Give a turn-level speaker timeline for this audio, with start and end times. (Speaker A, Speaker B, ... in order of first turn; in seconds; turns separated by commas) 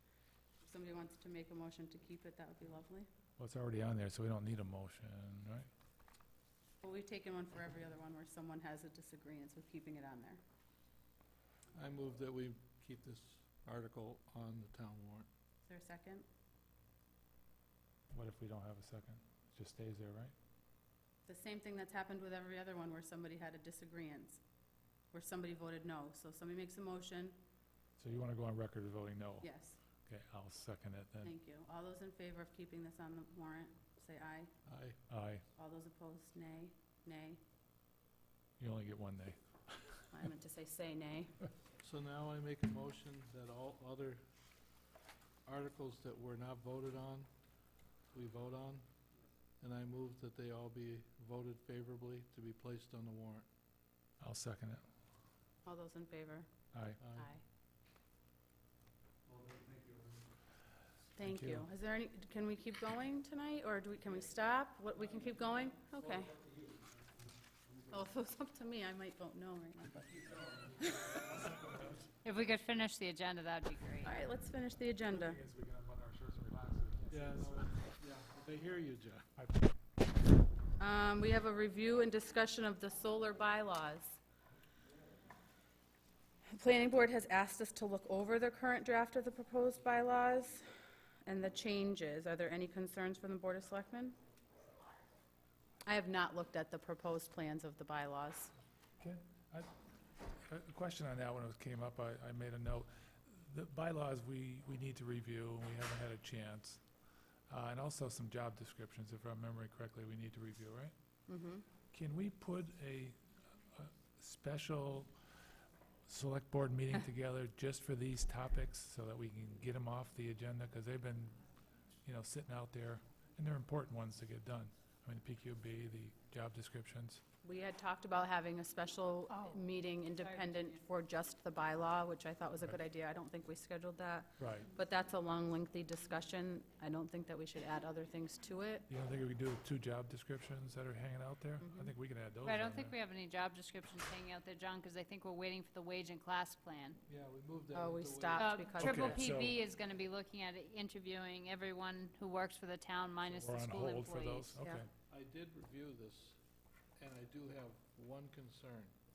Speaker A: 0.6-3.1, Speaker B: 3.4-5.7, Speaker A: 6.8-10.4, Speaker C: 11.8-15.3, Speaker A: 15.7-16.2, Speaker B: 18.1-20.3, Speaker A: 21.3-24.4, Speaker A: 25.1-27.4, Speaker B: 28.0-29.5, Speaker A: 29.4-29.8, Speaker B: 30.1-31.3, Speaker A: 31.2-34.5, Speaker C: 34.7-35.0, Speaker B: 35.1-35.5, Speaker A: 35.5-37.4, Speaker B: 38.6-40.1, Speaker A: 40.1-41.4, Speaker C: 41.8-44.2, Speaker C: 45.5-47.3, Speaker C: 48.1-48.8, Speaker C: 49.6-53.5, Speaker B: 54.2-54.8, Speaker A: 55.6-56.5, Speaker B: 56.7-57.0, Speaker C: 57.0-57.3, Speaker A: 57.2-57.4, Speaker A: 61.2-66.4, Speaker B: 61.2-61.7, Speaker A: 67.8-71.1, Speaker B: 71.3-71.9, Speaker D: 72.2-74.2, Speaker A: 74.0-75.4, Speaker B: 75.1-77.7, Speaker C: 77.1-79.3, Speaker B: 79.4-79.7, Speaker A: 80.8-84.2, Speaker A: 86.5-90.7, Speaker A: 91.2-94.2, Speaker A: 95.9-98.5, Speaker B: 99.0-99.7, Speaker B: 100.4-106.8, Speaker B: 107.5-110.9, Speaker A: 111.3-111.6, Speaker B: 111.9-113.2, Speaker B: 113.7-115.1, Speaker B: 116.1-121.4, Speaker B: 122.0-127.2, Speaker A: 127.4-138.9, Speaker D: 129.3-129.6, Speaker D: 130.2-130.8, Speaker B: 134.4-134.7, Speaker B: 138.9-142.9, Speaker A: 141.6-141.9, Speaker D: 142.4-147.0, Speaker C: 147.1-148.6, Speaker A: 147.7-149.3, Speaker D: 148.3-154.6, Speaker B: 148.8-149.6, Speaker B: 153.2-154.9, Speaker C: 155.1-156.4, Speaker C: 157.0-158.9